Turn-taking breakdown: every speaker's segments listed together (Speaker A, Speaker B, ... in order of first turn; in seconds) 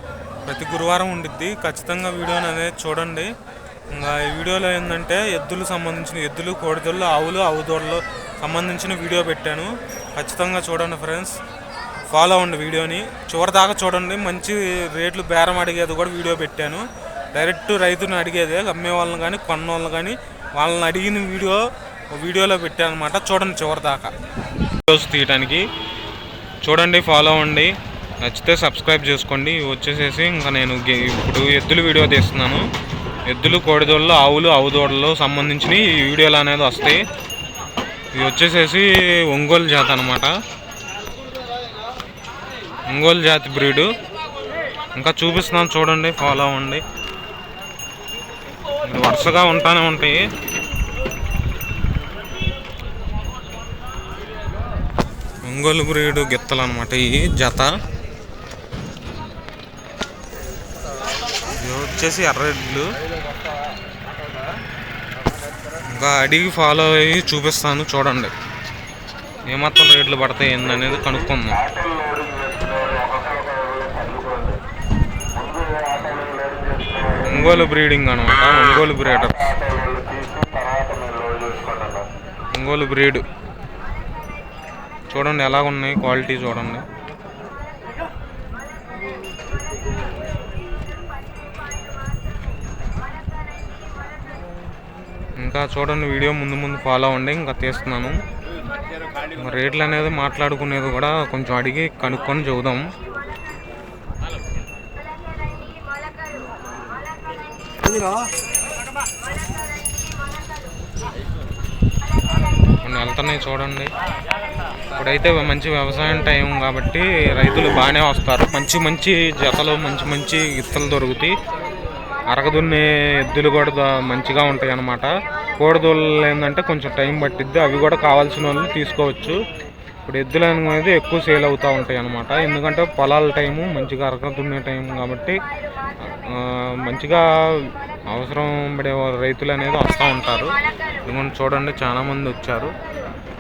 Speaker A: 0.4-3.3, 3.9-11.4, 12.1-24.1, 24.8-25.6, 26.6-32.6, 33.3-37.0, 38.1-40.3, 42.9-43.9, 44.9-46.8, 48.8-50.3, 55.4-57.7, 61.5-62.9, 65.9-68.3, 69.5-71.7, 75.9-76.3, 77.2-79.5, 82.5-83.2, 85.1-86.8, 95.4-98.2, 99.3-102.9, 112.8-113.9, 115.0-121.4, 122.3-129.4, 130.1-135.4, 136.1-140.5, 141.1-142.7